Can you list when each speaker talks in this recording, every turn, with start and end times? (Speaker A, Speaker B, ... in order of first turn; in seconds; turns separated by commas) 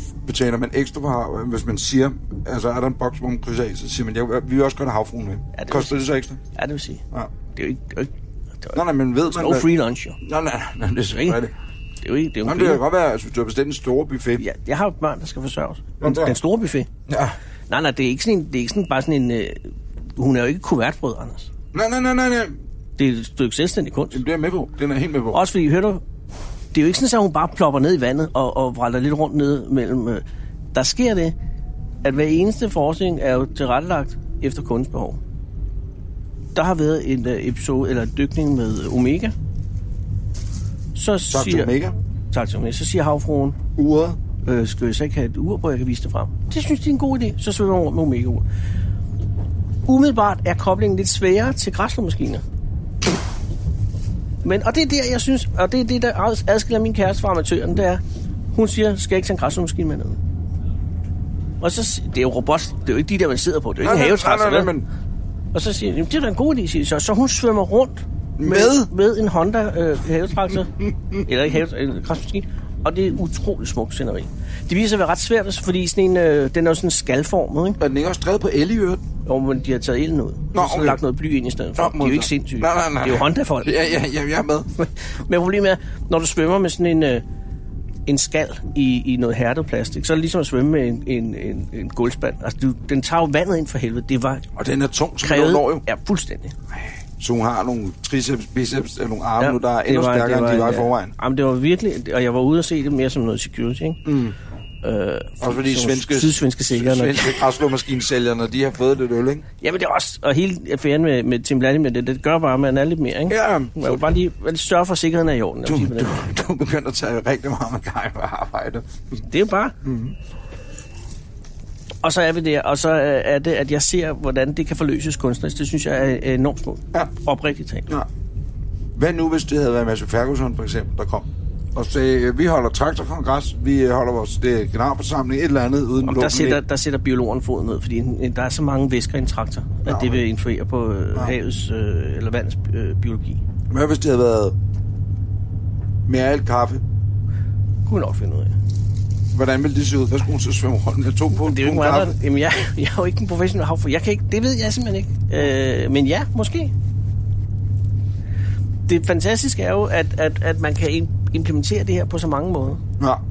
Speaker A: 0.2-6.4, Speaker B: 5.5-7.0, Speaker B: 7.5-8.1, Speaker B: 8.6-10.2, Speaker A: 8.7-11.5, Speaker B: 12.0-12.8, Speaker A: 12.4-14.4, Speaker B: 14.4-16.9, Speaker A: 16.0-16.4, Speaker A: 17.1-17.4, Speaker B: 17.7-21.5, Speaker A: 21.7-22.6, Speaker B: 23.0-24.2, Speaker A: 24.1-25.4, Speaker B: 25.3-26.0, Speaker B: 26.7-30.2, Speaker B: 30.7-31.3, Speaker B: 32.0-35.2, Speaker B: 36.5-39.3, Speaker B: 41.0-41.8, Speaker A: 41.3-42.0, Speaker B: 42.3-43.6, Speaker A: 43.8-44.2, Speaker B: 44.4-48.5, Speaker B: 49.9-52.4, Speaker B: 54.4-58.0, Speaker B: 58.5-60.2, Speaker B: 61.6-64.7, Speaker A: 63.8-64.9, Speaker B: 65.5-70.7, Speaker A: 68.4-68.9, Speaker A: 70.8-71.2, Speaker B: 71.2-77.8, Speaker A: 77.8-79.0, Speaker B: 79.2-83.8, Speaker A: 80.5-81.0, Speaker A: 81.8-84.7, Speaker B: 84.8-87.2, Speaker B: 88.1-94.5, Speaker A: 94.6-95.8, Speaker B: 95.2-96.5, Speaker A: 97.2-101.2, Speaker B: 99.4-104.0, Speaker A: 104.0-104.4, Speaker B: 104.8-107.4, Speaker A: 105.4-109.5, Speaker B: 109.6-116.2, Speaker A: 113.3-114.1, Speaker A: 115.7-119.2, Speaker B: 119.3-119.8, Speaker A: 119.8-120.2, Speaker B: 122.0-127.9, Speaker A: 128.9-136.6, Speaker B: 136.0-143.4, Speaker A: 139.8-140.2, Speaker A: 143.7-144.6, Speaker A: 146.1-146.8, Speaker B: 147.9-148.5, Speaker A: 149.3-152.2, Speaker B: 151.3-156.7, Speaker B: 158.9-162.8